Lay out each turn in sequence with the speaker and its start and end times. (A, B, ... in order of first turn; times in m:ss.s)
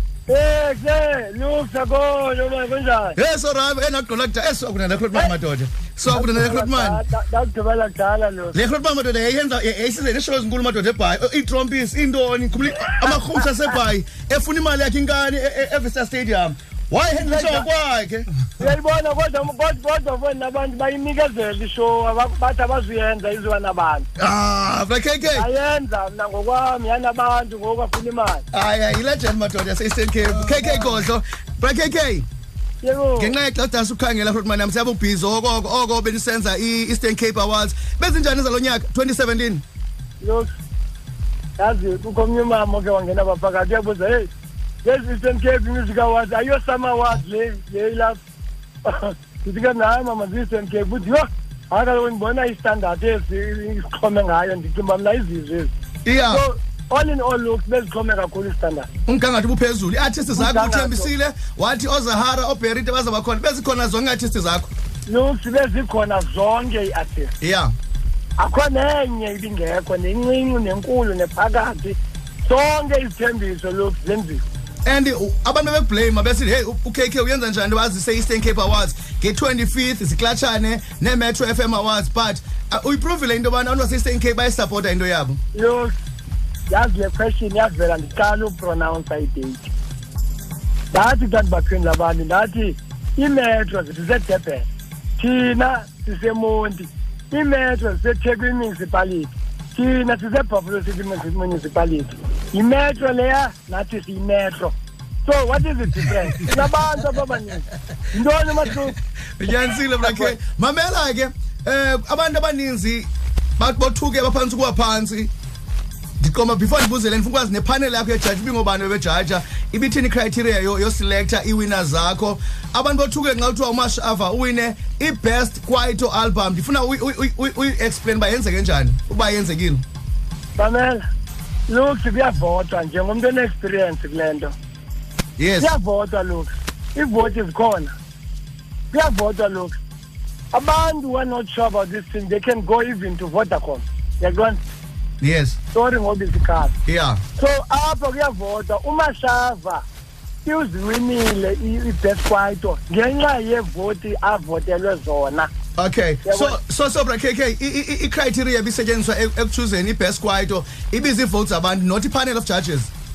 0:00.3-0:03.2 A
0:03.2-0:07.0 B
0:06.1-0:08.6 A
0:08.5-0:18.7 B
0:17.2-0:17.7 A
0:18.6-0:24.1 A
0:24.2-0:25.5 B
0:25.4-0:28.4 A
0:28.5-0:32.3 B
0:30.5-0:30.9 A
0:32.8-0:33.4 A
0:33.2-0:39.6 B
0:40.2-0:40.5 A
0:41.6-0:44.3 A
0:44.8-0:48.2 A
0:48.8-0:55.7 A
0:56.0-0:56.4 B
0:56.2-0:58.9 A
0:59.1-1:04.7 B
1:00.4-1:01.1 A
1:05.1-1:07.3 A
1:07.4-1:07.7 B
1:08.4-1:14.4 A
1:14.9-1:25.4 B
1:25.5-1:25.9 A
1:26.7-1:29.7 A
1:30.9-1:49.0 A
1:49.4-1:55.3 B
1:50.0-1:50.4 A
1:56.2-2:09.8 B
2:10.6-2:11.0 A
2:11.7-2:14.5 A
2:15.4-2:15.7 B
2:15.6-2:17.9 A
2:18.9-2:19.8 A
2:20.5-2:24.6 A
2:25.2-2:25.6 B
2:25.7-2:26.8 A
2:26.9-2:27.2 B
2:27.4-2:29.8 A
2:30.4-2:35.5 A
2:35.8-2:42.9 B
2:36.2-2:36.6 A